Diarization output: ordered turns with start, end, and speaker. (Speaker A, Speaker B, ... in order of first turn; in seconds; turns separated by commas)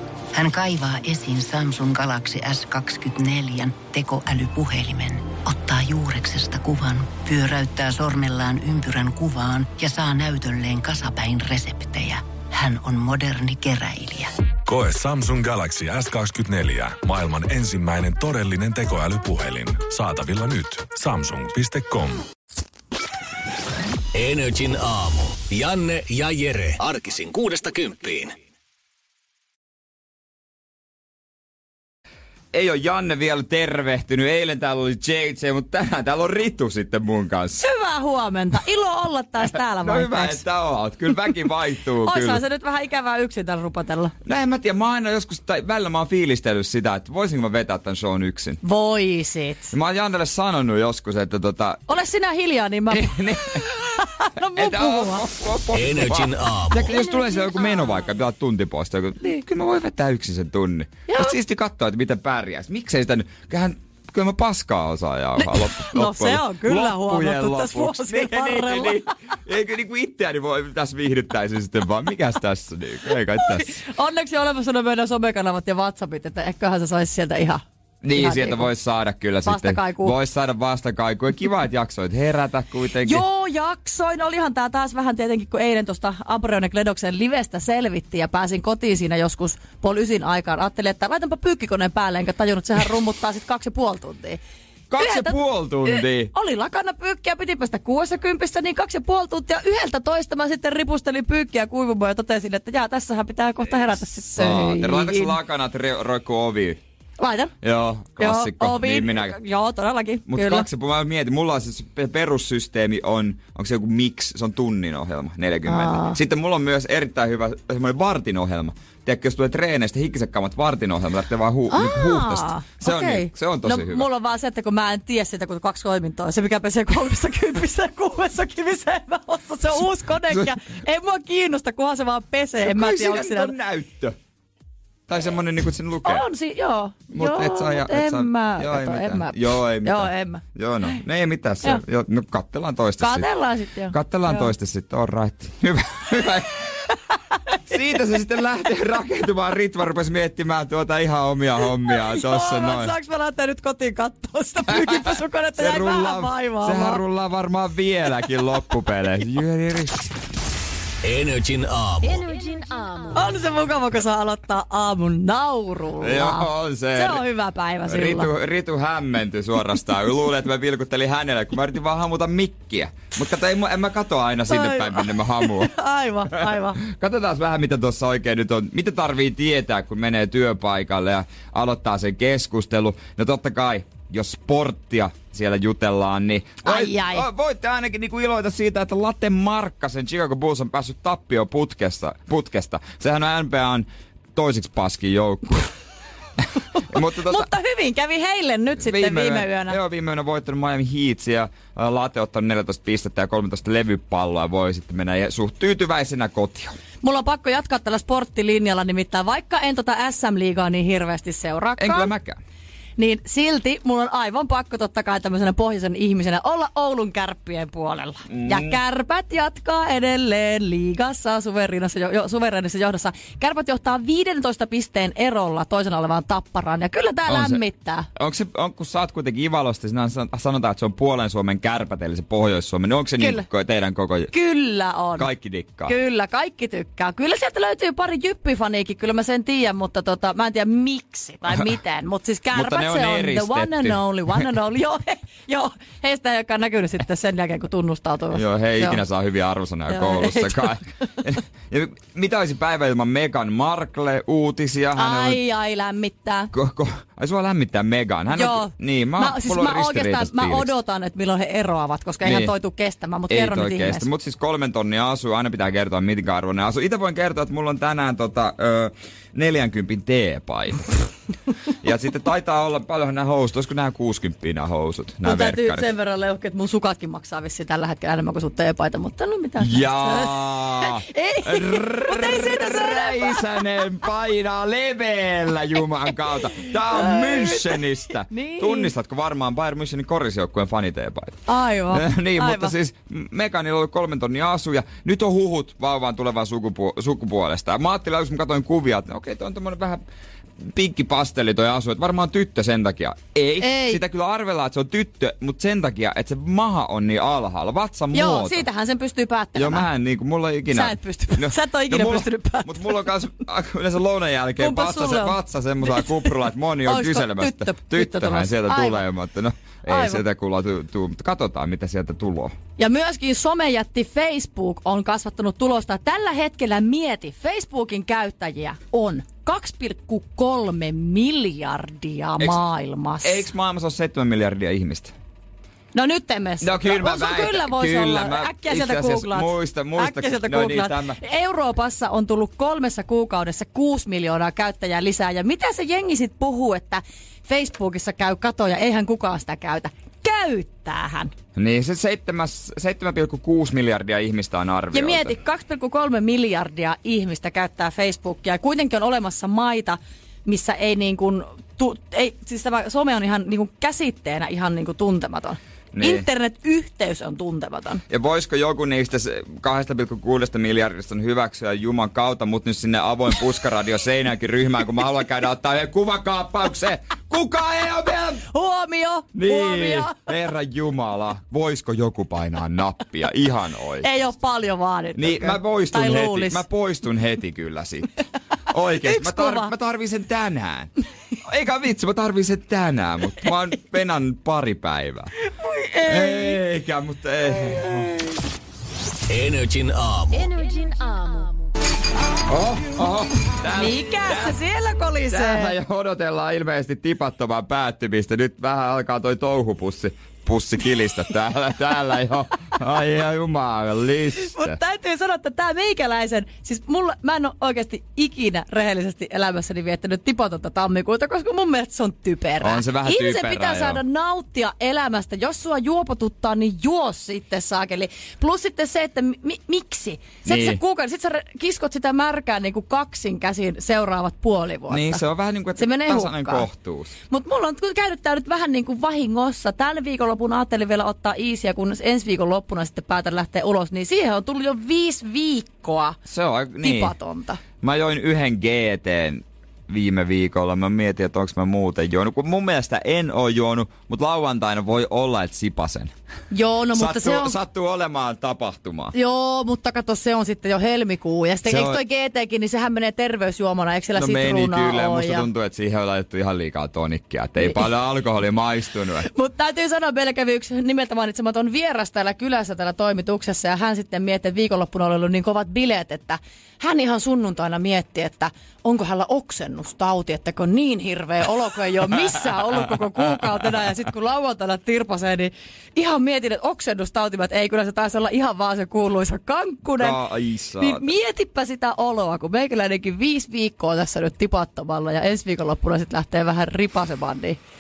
Speaker A: 0.3-14.3, Speaker B: 14.7-22.2, Speaker C: 24.1-28.4, Speaker D: 32.5-37.6, Speaker E: 37.6-40.4, Speaker D: 39.5-42.4, Speaker E: 42.0-44.1, Speaker D: 44.2-48.6, Speaker E: 48.6-49.7, Speaker D: 49.7-51.8, Speaker E: 51.9-55.2, Speaker D: 52.9-73.8, Speaker C: 55.7-56.9, Speaker E: 61.1-61.4, Speaker E: 65.4-69.1, Speaker E: 73.4-77.6, Speaker D: 78.0-83.2, Speaker E: 78.2-78.7, Speaker E: 79.5-80.1, Speaker E: 83.0-94.4, Speaker D: 94.9-96.3, Speaker E: 95.0-105.3, Speaker D: 104.3-106.8, Speaker E: 107.2-107.5, Speaker D: 107.6-109.4, Speaker E: 108.2-110.7, Speaker D: 110.3-124.1, Speaker E: 115.7-116.2, Speaker E: 121.7-133.5, Speaker D: 132.6-134.2, Speaker D: 135.1-136.3, Speaker E: 136.0-140.4, Speaker D: 137.1-143.3, Speaker E: 143.0-144.5, Speaker D: 143.9-146.9, Speaker D: 147.7-152.9, Speaker E: 151.9-157.0, Speaker D: 154.7-160.1, Speaker C: 161.0-163.1, Speaker E: 163.1-168.3, Speaker D: 166.0-167.2, Speaker D: 167.9-175.7, Speaker E: 174.5-176.8, Speaker D: 176.3-195.7, Speaker E: 186.6-187.3, Speaker E: 196.8-199.8, Speaker D: 196.9-197.5, Speaker D: 198.8-206.8, Speaker E: 207.0-212.1, Speaker D: 211.8-212.4, Speaker E: 213.0-228.1, Speaker D: 218.3-218.8, Speaker D: 227.3-227.6, Speaker D: 228.2-234.3, Speaker E: 233.2-233.5, Speaker E: 234.3-235.3, Speaker D: 235.2-236.0, Speaker E: 235.9-249.0, Speaker D: 242.5-244.5, Speaker D: 248.3-255.4, Speaker E: 249.9-250.7, Speaker E: 255.0-256.5, Speaker D: 256.5-260.7, Speaker E: 258.3-264.1, Speaker D: 262.2-262.5, Speaker D: 263.3-271.1, Speaker D: 271.8-275.9, Speaker E: 275.2-283.6, Speaker D: 279.6-300.0, Speaker E: 286.9-288.9, Speaker E: 291.5-292.8, Speaker D: 300.6-308.6, Speaker E: 303.6-304.0, Speaker E: 308.1-309.9, Speaker D: 309.6-322.5, Speaker E: 310.7-313.1, Speaker E: 314.6-316.3, Speaker E: 316.8-319.0, Speaker E: 319.9-320.2, Speaker E: 322.8-333.5, Speaker D: 333.2-335.1, Speaker E: 335.9-351.3, Speaker D: 336.6-341.2, Speaker D: 351.6-355.3, Speaker E: 354.9-368.0, Speaker D: 365.9-366.3, Speaker D: 368.1-378.4, Speaker E: 378.5-380.2, Speaker D: 379.4-384.1, Speaker E: 384.0-386.6, Speaker D: 385.1-390.9, Speaker E: 389.0-389.7, Speaker D: 391.4-395.3, Speaker E: 395.6-396.6, Speaker D: 396.0-398.2, Speaker C: 399.3-401.5, Speaker D: 402.5-404.6, Speaker E: 403.7-405.7, Speaker D: 405.3-414.8, Speaker E: 414.4-435.2, Speaker D: 422.6-424.0, Speaker D: 430.4-430.8, Speaker D: 434.9-437.1, Speaker E: 435.8-436.7, Speaker E: 437.3-446.2, Speaker D: 446.3-447.1, Speaker E: 446.8-447.6, Speaker D: 447.8-456.1, Speaker E: 456.5-457.6, Speaker D: 456.9-459.1, Speaker E: 459.1-465.5, Speaker D: 461.7-462.0, Speaker D: 464.1-469.3, Speaker E: 469.2-490.2, Speaker D: 482.7-483.4, Speaker D: 490.0-491.1, Speaker E: 490.8-497.6